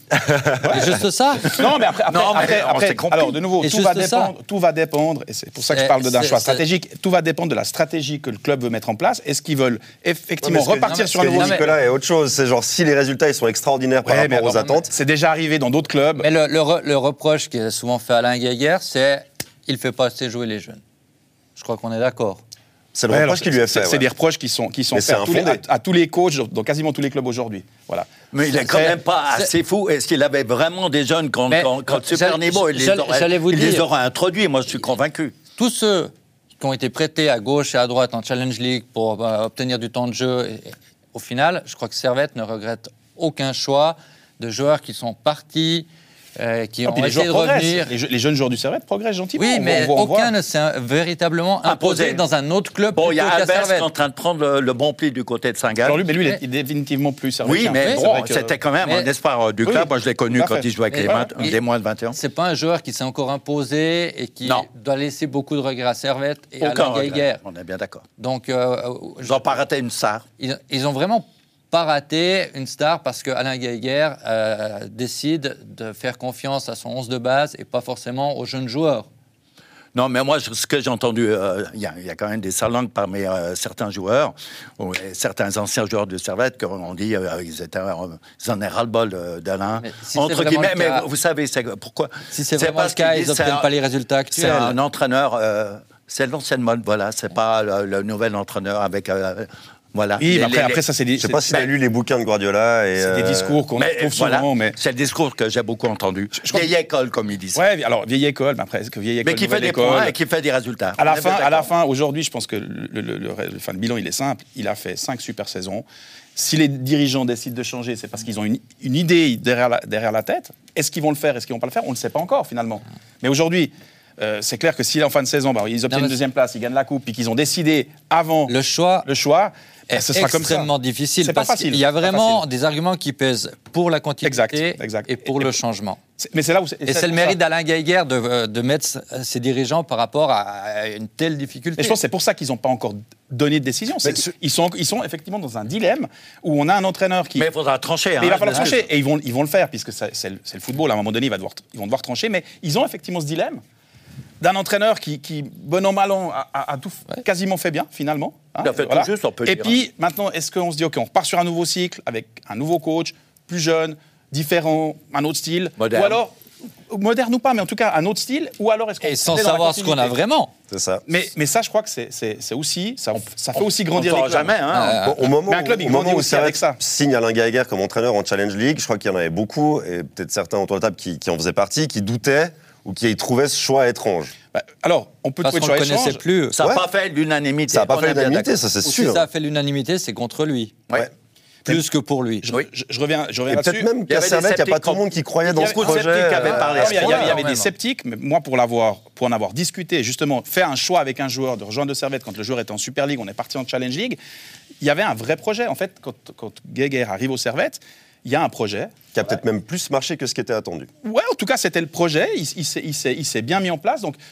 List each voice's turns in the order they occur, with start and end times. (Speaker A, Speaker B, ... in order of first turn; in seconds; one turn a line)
Speaker A: 0.3-0.6
Speaker B: 0.7-0.9
Speaker C: 0.7-1.6
Speaker B: 1.4-11.7
Speaker D: 1.5-3.4
Speaker C: 3.6-4.3
Speaker C: 5.7-6.6
Speaker A: 10.4-14.9
Speaker C: 10.9-11.7
Speaker B: 14.1-16.3
Speaker C: 16.2-20.8
Speaker C: 21.6-22.4
Speaker A: 22.9-24.1
Speaker B: 23.1-29.0
Speaker A: 24.9-25.6
Speaker D: 28.3-35.4
Speaker C: 31.5-33.9
Speaker C: 35.6-47.9
Speaker B: 46.9-50.3
Speaker C: 49.4-53.9
Speaker D: 51.6-52.2
Speaker D: 53.0-56.0
Speaker B: 55.8-58.5
Speaker D: 57.4-62.2
Speaker C: 57.8-58.0
Speaker C: 58.8-59.1
Speaker B: 59.6-61.3
Speaker C: 60.9-61.6
Speaker C: 62.1-67.4
Speaker D: 66.6-68.0
Speaker C: 68.2-69.5
Speaker D: 69.2-70.2
Speaker C: 70.4-79.1
Speaker D: 80.0-93.7
Speaker C: 89.8-91.1
Speaker C: 92.3-94.8
Speaker D: 94.3-100.8
Speaker B: 100.2-101.6
Speaker A: 101.2-103.6
Speaker B: 103.0-104.8
Speaker D: 103.8-107.6
Speaker B: 106.4-106.7
Speaker B: 107.5-110.1
Speaker D: 109.2-111.7
Speaker B: 111.0-115.8
Speaker B: 116.4-128.5
Speaker C: 125.9-126.2
Speaker C: 128.5-129.1
Speaker B: 129.1-130.7
Speaker C: 129.9-136.0
Speaker B: 131.2-132.4
Speaker B: 134.2-135.5
Speaker B: 136.2-137.4
Speaker C: 136.9-142.0
Speaker B: 141.8-147.5
Speaker D: 147.4-148.9
Speaker B: 148.2-153.6
Speaker B: 154.4-166.3
Speaker D: 158.6-159.8
Speaker D: 165.8-166.2
Speaker B: 166.9-170.2
Speaker C: 169.0-170.5
Speaker A: 170.7-171.0
Speaker B: 171.1-174.6
Speaker D: 173.6-175.0
Speaker C: 174.7-175.3
Speaker A: 175.0-184.3
Speaker B: 175.5-176.8
Speaker B: 184.5-186.2
Speaker C: 185.4-186.6
Speaker D: 186.6-188.5
Speaker A: 187.7-189.2
Speaker C: 188.8-190.9
Speaker C: 191.7-192.5
Speaker B: 192.4-193.9
Speaker A: 193.5-197.3
Speaker D: 194.1-197.4
Speaker B: 196.4-204.2
Speaker C: 196.5-197.7
Speaker B: 204.8-209.0
Speaker A: 209.1-210.9
Speaker B: 211.0-214.2